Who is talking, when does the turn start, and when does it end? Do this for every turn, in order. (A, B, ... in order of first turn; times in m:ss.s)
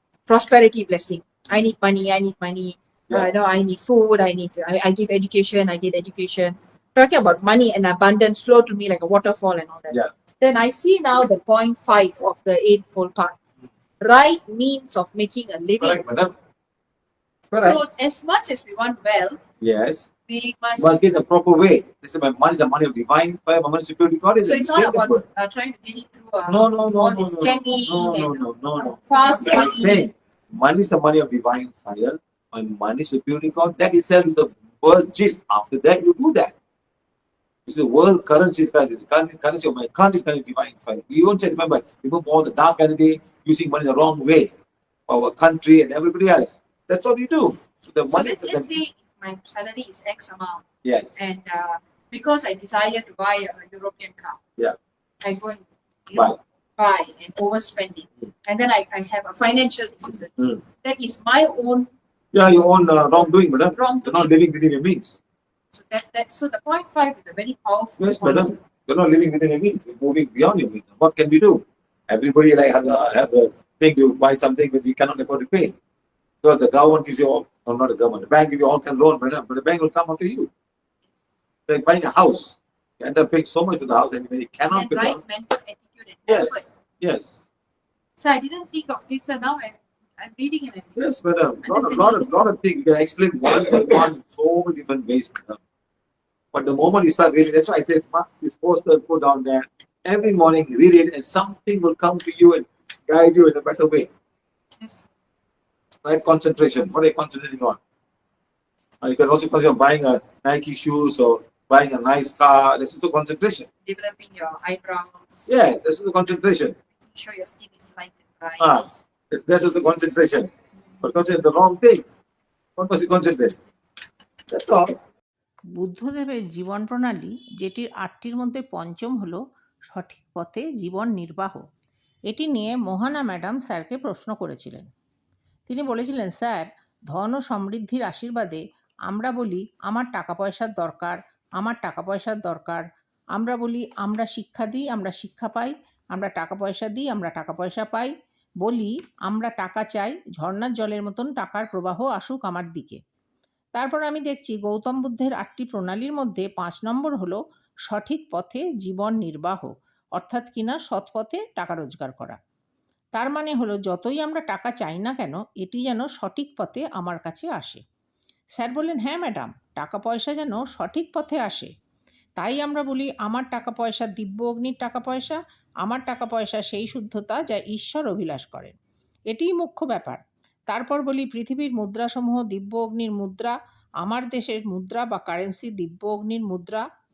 0:00.3-0:13.4 A
0:14.0-0:16.0 A
0:15.8-0:16.3 B
0:17.5-0:17.8 B
0:17.6-0:19.4 A
0:19.6-0:20.1 B
0:20.3-0:21.1 A
0:20.8-0:25.2 B
0:24.4-0:30.1 A
0:26.5-0:36.5 B
0:37.7-0:44.5 B
0:45.1-0:48.8 B
0:48.1-0:50.6 A
0:50.8-0:51.2 B
0:51.2-0:54.4 A
0:55.2-1:01.9 A
1:02.3-1:05.2 B
1:03.7-1:04.3 A
1:05.7-1:08.6 A
1:08.0-1:15.8 B
1:16.4-1:20.5 B
1:21.7-1:25.2 B
1:24.7-1:26.7 A
1:26.3-1:27.5 B
1:28.2-1:31.1 A
1:31.0-1:35.6 B
1:31.6-1:32.4 A
1:36.5-1:44.1 B
1:44.8-1:45.1 A
1:46.0-1:47.8 B
1:49.0-1:53.7 B
1:53.8-1:55.6 A
1:55.5-1:56.8 B
1:57.0-1:59.0 A
1:58.6-2:00.5 B
2:01.0-2:02.1 B
2:02.8-2:03.6 B
2:04.5-2:05.0 B
2:05.8-2:11.6 C
2:12.3-2:14.9 C
2:15.7-2:33.0 C
2:33.8-2:42.4 C
2:43.2-2:47.8 C
2:48.6-2:51.7 C
2:52.4-2:58.8 C
2:59.3-3:06.8 C